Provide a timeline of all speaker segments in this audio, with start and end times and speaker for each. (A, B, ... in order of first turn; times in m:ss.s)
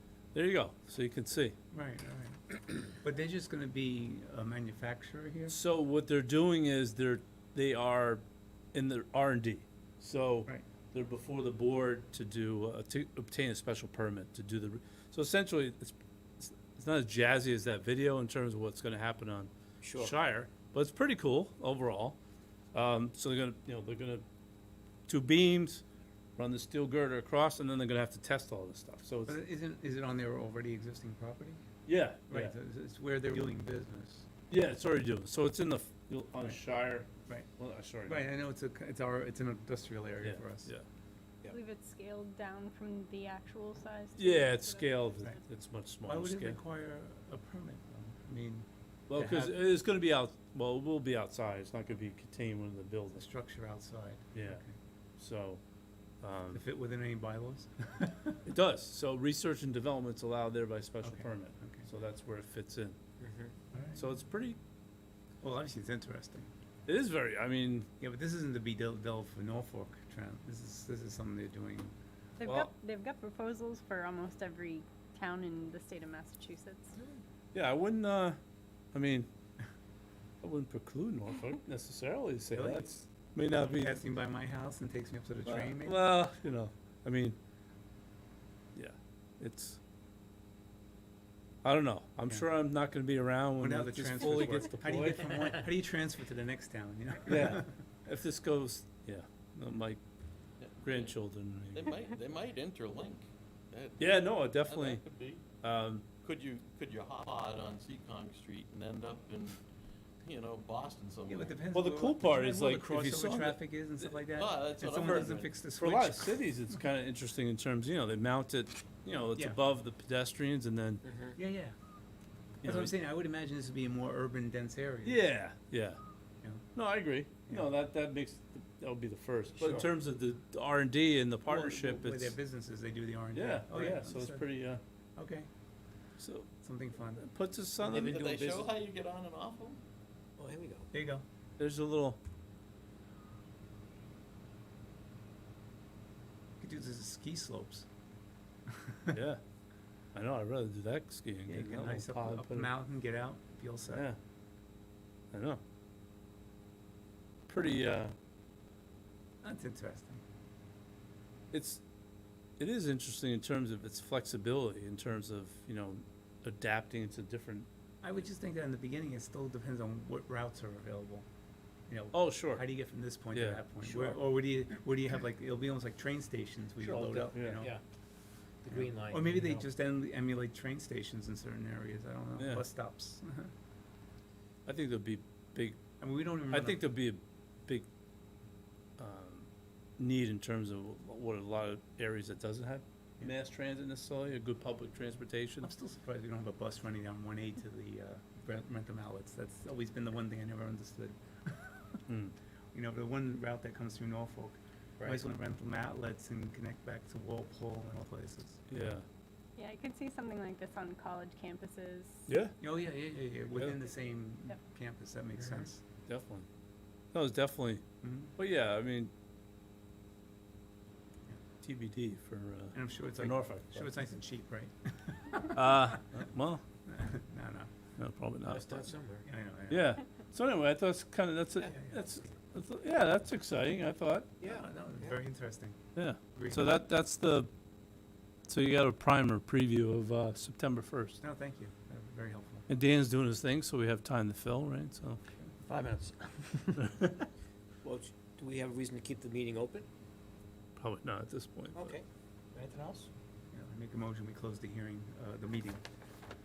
0:00.3-0:01.6 A
0:01.7-0:05.5 B
0:05.5-0:08.2 A
0:08.7-0:22.2 A
0:19.8-0:20.1 C
0:22.7-0:24.2 A
0:25.1-0:25.8 A
0:26.4-0:29.4 A
0:29.2-0:31.6 B
0:31.8-0:32.5 A
0:32.3-0:34.3 B
0:34.5-0:38.3 A
0:38.0-0:40.7 B
0:40.2-0:40.8 A
0:41.5-0:45.3 D
0:44.2-0:46.6 A
0:46.0-0:49.5 B
0:49.1-0:53.2 A
0:53.1-0:54.7 B
0:54.3-0:54.6 A
0:55.2-0:55.6 A
0:56.2-0:56.6 A
0:56.5-0:58.4 B
0:58.4-1:03.0 A
1:01.0-1:01.9 B
1:03.2-1:03.5 C
1:03.7-1:04.0 B
1:04.0-1:04.6 A
1:05.4-1:06.5 B
1:06.9-1:07.9 A
1:08.0-1:11.9 B
1:12.4-1:17.0 D
1:12.4-1:12.7 A
1:17.5-1:18.4 A
1:18.9-1:19.3 A
1:20.4-1:24.0 A
1:23.6-1:26.0 B
1:25.4-1:27.4 A
1:28.7-1:29.8 A
1:31.6-1:35.6 A
1:33.6-1:37.7 B
1:37.2-1:40.0 A
1:40.6-1:41.2 E
1:40.8-1:41.9 A
1:41.7-1:45.4 E
1:44.0-1:45.0 A
1:45.6-1:46.0 A
1:46.2-1:49.6 E
1:50.2-1:51.6 E
1:51.2-1:56.4 B
1:51.7-1:54.1 A
1:54.3-1:55.5 E
1:55.8-2:01.0 A
1:59.3-1:59.6 B
2:01.0-2:01.3 C
2:01.4-2:01.7 B
2:02.6-2:02.9 A
2:02.6-2:05.2 B
2:05.0-2:06.0 A
2:06.7-2:12.4 A
2:09.6-2:09.8 C
2:11.4-2:14.4 B
2:13.3-2:14.8 A
2:15.2-2:15.5 B
2:16.2-2:16.5 A
2:16.6-2:17.2 B
2:17.2-2:18.5 A
2:17.8-2:19.8 E
2:17.8-2:18.6 C
2:20.4-2:20.9 C
2:20.9-2:21.2 B
2:21.6-2:22.2 A
2:26.6-2:27.9 B
2:29.1-2:29.4 A
2:30.1-2:32.7 A
2:31.5-2:34.0 B
2:33.9-2:34.2 A
2:35.3-2:35.6 A
2:37.5-2:38.1 A
2:39.4-2:40.2 B
2:41.5-2:41.8 A
2:42.6-2:47.7 A
2:48.0-2:51.2 B
2:51.9-2:57.7 B
2:52.1-2:52.6 A
2:53.3-2:54.2 A
2:56.8-2:57.8 C
2:57.3-2:57.6 A
2:58.6-2:59.7 C
2:58.7-3:03.5 B
3:02.4-3:02.6 A
3:04.6-3:05.8 A
3:06.0-3:06.8 B
3:06.5-3:07.9 A
3:09.0-3:15.7 A
3:15.6-3:21.8 B
3:22.1-3:22.3 A
3:22.7-3:28.7 B
3:28.7-3:29.0 A
3:29.6-3:32.3 D
3:32.3-3:32.5 A
3:32.5-3:35.8 B
3:36.1-3:36.5 A
3:37.1-3:37.8 A
3:38.0-3:38.3 B
3:38.4-3:39.1 A
3:41.6-3:43.9 A
3:42.7-3:46.0 B
3:45.5-3:46.6 A
3:46.9-3:47.7 B
3:48.0-3:48.9 A
3:48.4-3:49.3 C
3:49.2-3:49.9 B
3:49.7-3:54.3 A
3:51.6-3:52.0 B
3:54.4-3:55.2 C
3:54.4-3:55.7 B
3:56.0-3:57.5 A
3:56.3-3:56.8 B
3:58.5-4:01.2 A
4:01.2-4:02.7 B
4:02.7-4:05.2 A
4:05.6-4:06.9 C
4:07.8-4:09.9 C
4:10.8-4:11.9 A
4:11.7-4:13.1 C
4:13.5-4:15.8 B